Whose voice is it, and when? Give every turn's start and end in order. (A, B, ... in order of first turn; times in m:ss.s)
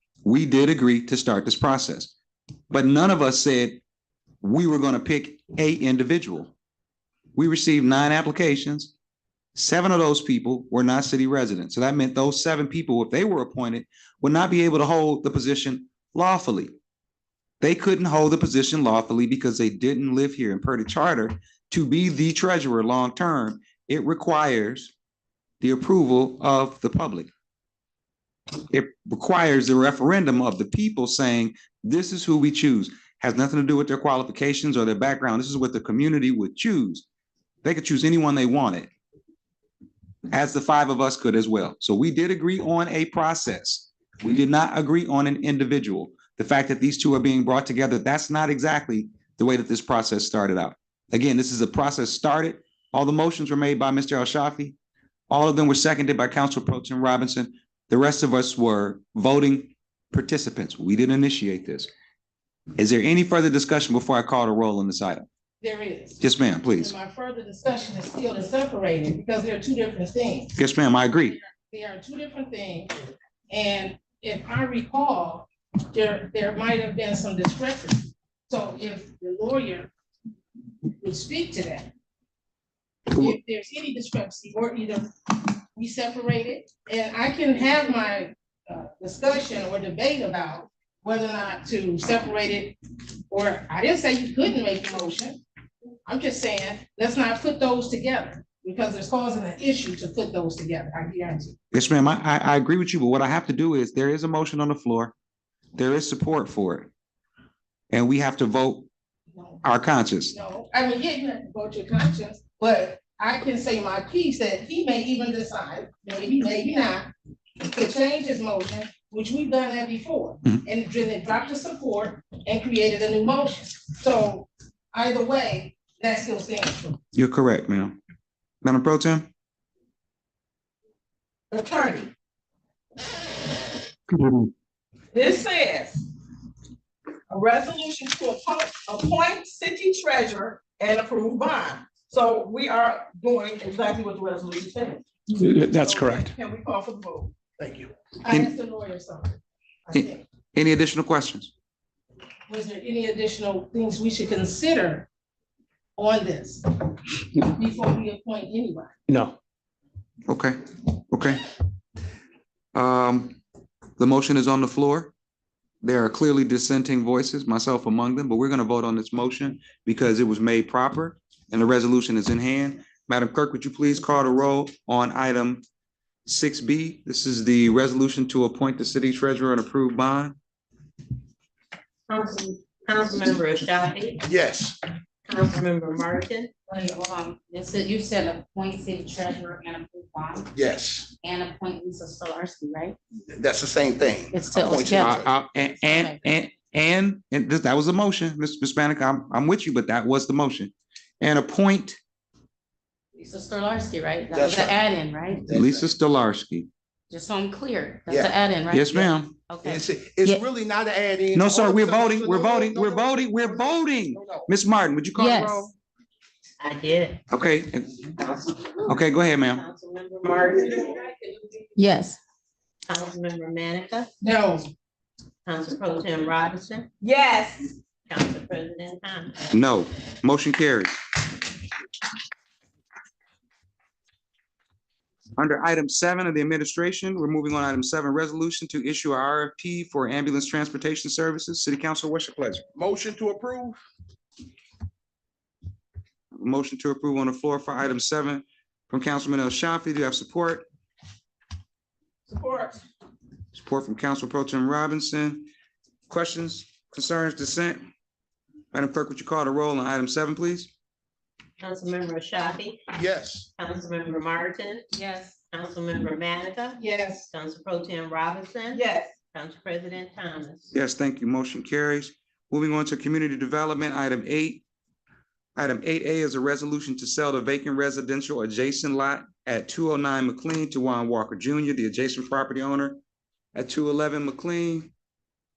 0:00.2-0:02.1 A
0:02.7-0:03.8 A
0:04.4-0:06.5 A
0:07.4-0:08.9 A
0:09.6-0:16.7 A
0:17.6-0:24.9 A
0:25.6-0:27.3 A
0:28.7-0:37.0 A
0:37.6-0:38.9 A
0:40.3-0:54.8 A
0:55.3-1:01.9 A
1:02.8-1:05.3 A
1:05.6-1:06.2 B
1:06.2-1:06.9 A
1:06.8-1:10.5 B
1:10.6-1:11.4 A
1:11.5-1:12.9 B
1:13.5-1:19.9 B
1:21.0-1:21.9 B
1:23.1-1:32.8 B
1:33.3-1:35.4 B
1:36.0-1:41.6 B
1:41.7-1:45.1 A
1:45.8-1:46.9 A
1:47.9-1:48.9 A
1:49.3-1:49.6 B
1:49.6-1:50.3 A
1:50.3-1:57.1 B
1:57.6-2:07.0 B
2:07.2-2:08.0 A
2:08.6-2:09.3 A
2:11.5-2:12.1 C
2:15.1-2:16.0 C
2:17.3-2:25.0 C
2:25.7-2:27.3 C
2:27.6-2:27.9 D
2:28.2-2:30.2 B
2:29.9-2:31.5 A
2:32.5-2:35.1 B
2:36.0-2:36.6 B
2:37.4-2:38.9 B
2:40.3-2:40.6 A
2:41.1-2:41.4 A
2:42.7-2:43.4 A
2:44.0-2:45.1 A
2:45.8-2:55.6 A
2:56.3-3:00.4 A
3:02.1-3:04.2 E
3:04.2-3:04.8 D
3:05.3-3:06.5 E
3:06.7-3:10.5 F
3:10.6-3:11.1 D
3:11.2-3:13.0 F
3:13.3-3:15.2 D
3:14.3-3:16.2 F
3:15.0-3:22.0 A
3:23.2-3:25.5 F
3:24.3-3:24.8 D
3:25.5-3:25.9 D
3:25.5-3:26.7 A
3:27.1-3:30.4 F
3:28.7-3:29.3 A
3:29.6-3:34.5 D
3:31.4-3:35.7 A
3:35.2-3:35.7 F
3:36.6-3:37.2 E
3:37.3-3:39.6 A
3:38.9-3:41.6 E
3:41.8-3:42.2 F
3:42.9-3:44.1 E
3:44.2-3:44.7 B
3:45.5-3:46.9 E
3:47.0-3:47.7 C
3:48.1-3:49.4 E
3:49.5-3:51.0 A
3:55.4-4:02.6 A
4:02.8-4:03.8 D
4:06.4-4:10.6 A
4:12.3-4:12.8 C
4:13.5-4:15.5 A
4:16.1-4:17.8 A
4:18.7-4:20.7 A
4:21.6-4:22.8 E
4:22.9-4:23.5 D
4:23.6-4:24.9 E
4:24.9-4:25.4 F
4:25.5-4:30.7 E
4:26.8-4:27.3 B
4:28.7-4:29.1 C
4:30.7-4:34.6 A
4:35.6-4:43.0 A
4:43.6-4:44.9 A